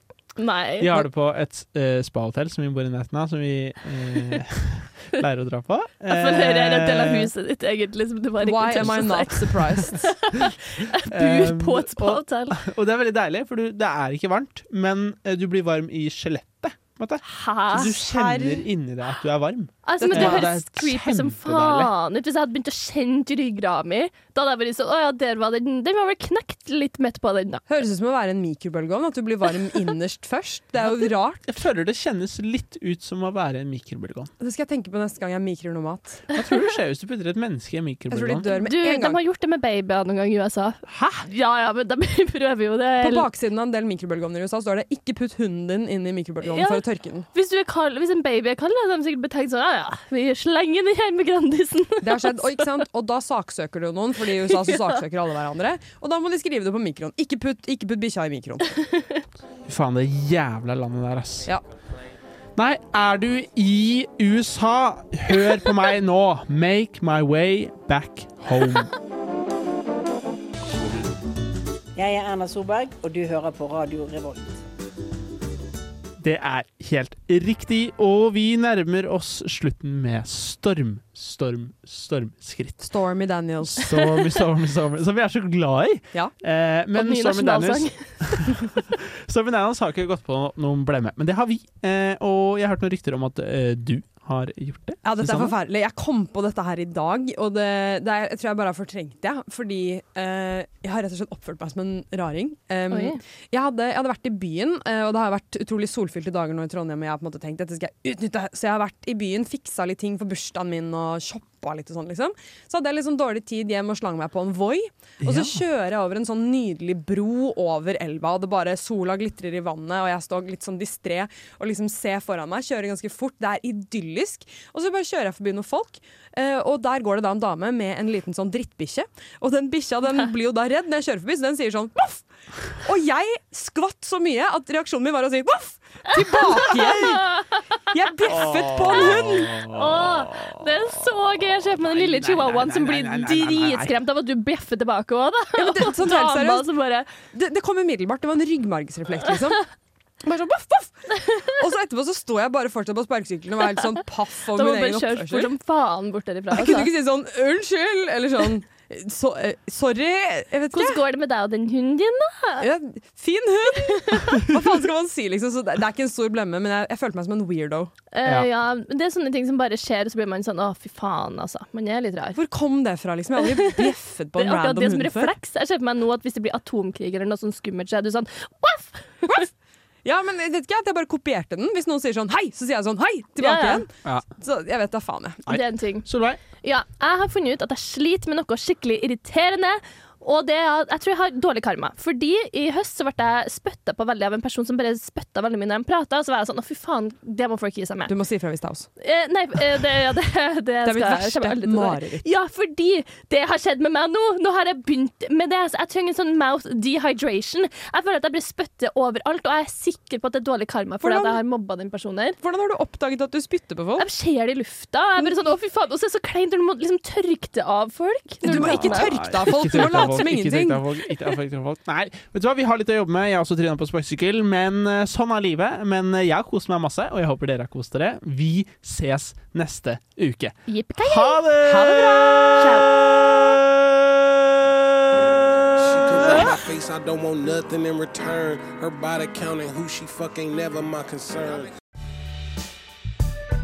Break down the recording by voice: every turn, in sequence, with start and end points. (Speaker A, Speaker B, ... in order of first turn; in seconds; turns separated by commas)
Speaker A: 0.4-1.1, Speaker B: 0.8-7.3, Speaker A: 6.1-12.6, Speaker C: 8.4-10.1, Speaker B: 11.1-21.9, Speaker A: 17.2-17.9, Speaker C: 17.8-18.6, Speaker A: 19.8-27.6, Speaker C: 20.0-20.5, Speaker C: 27.7-31.4, Speaker B: 31.4-34.3, Speaker C: 34.4-36.2, Speaker B: 36.3-38.4, Speaker C: 38.1-39.2, Speaker A: 38.5-43.2, Speaker B: 40.9-41.2, Speaker C: 43.0-47.3, Speaker A: 46.4-52.6, Speaker C: 52.0-58.7, Speaker A: 54.5-55.0, Speaker A: 58.9-59.2, Speaker B: 59.6-61.5, Speaker B: 62.5-68.9, Speaker D: 72.0-74.6, Speaker B: 76.2-82.8, Speaker C: 82.8-83.8, Speaker B: 83.6-95.5, Speaker A: 87.0-88.5, Speaker C: 95.0-132.2, Speaker A: 102.9-103.2, Speaker B: 115.2-115.6, Speaker C: 132.8-137.4, Speaker A: 136.1-137.8, Speaker C: 137.9-139.5, Speaker B: 138.3-141.0, Speaker A: 138.3-147.1, Speaker B: 141.7-144.0, Speaker C: 145.6-146.7, Speaker C: 147.3-149.6, Speaker C: 150.2-155.5, Speaker A: 151.1-151.6, Speaker A: 154.5-156.9, Speaker C: 156.5-161.0, Speaker A: 160.7-162.6, Speaker C: 162.6-167.9, Speaker A: 163.8-164.5, Speaker A: 168.1-172.4, Speaker C: 172.3-175.3, Speaker A: 173.6-179.5, Speaker C: 180.0-185.5, Speaker A: 183.4-183.8, Speaker A: 185.5-186.1, Speaker B: 185.5-186.4, Speaker A: 186.6-198.1, Speaker C: 198.1-198.9, Speaker A: 199.0-212.4, Speaker C: 200.8-202.2, Speaker C: 211.0-211.4, Speaker C: 212.4-214.1, Speaker A: 214.0-220.2, Speaker C: 218.4-220.8, Speaker B: 218.4-234.8, Speaker A: 230.7-232.9, Speaker C: 231.6-232.5, Speaker E: 235.8-241.7, Speaker B: 235.8-236.5